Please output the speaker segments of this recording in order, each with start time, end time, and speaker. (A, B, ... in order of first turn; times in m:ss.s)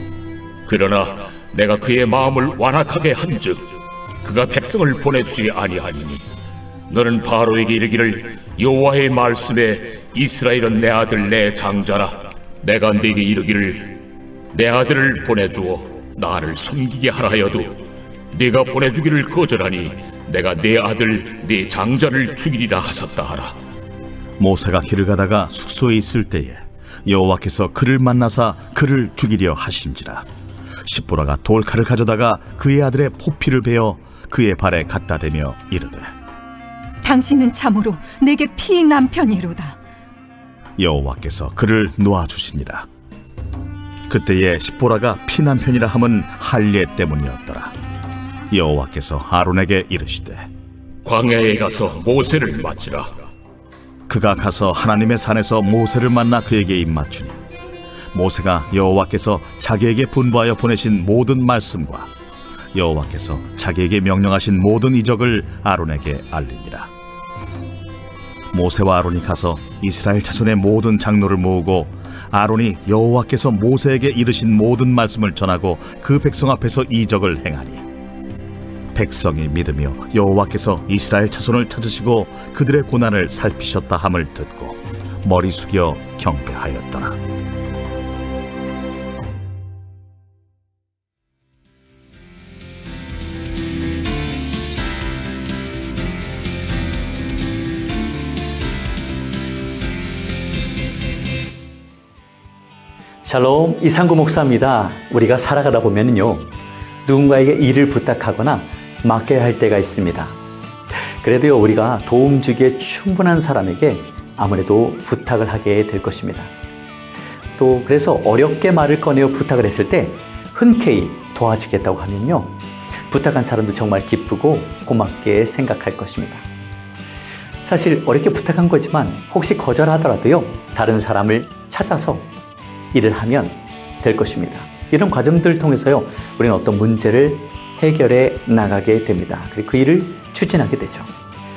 0:00.7-0:06.2 A
0:06.9-0:14.0 A
0:14.5-0:17.8 A
0:18.3-0:23.6 A
0:24.4-0:30.3 B
0:30.8-0:36.1 B
0:37.0-0:39.8 C
0:40.8-0:42.9 B
0:44.1-0:47.7 B
0:48.5-0:50.5 B
0:51.0-0:53.1 A
0:54.1-0:57.4 B
0:58.1-1:02.1 B
1:02.7-1:06.9 B
1:08.5-1:17.8 B
1:18.9-1:27.2 B
1:43.2-1:46.5 D
1:47.1-1:50.4 D
1:51.2-1:56.5 D
1:57.6-2:02.6 D
2:03.1-2:06.5 D
2:07.6-2:12.3 D
2:12.9-2:21.1 D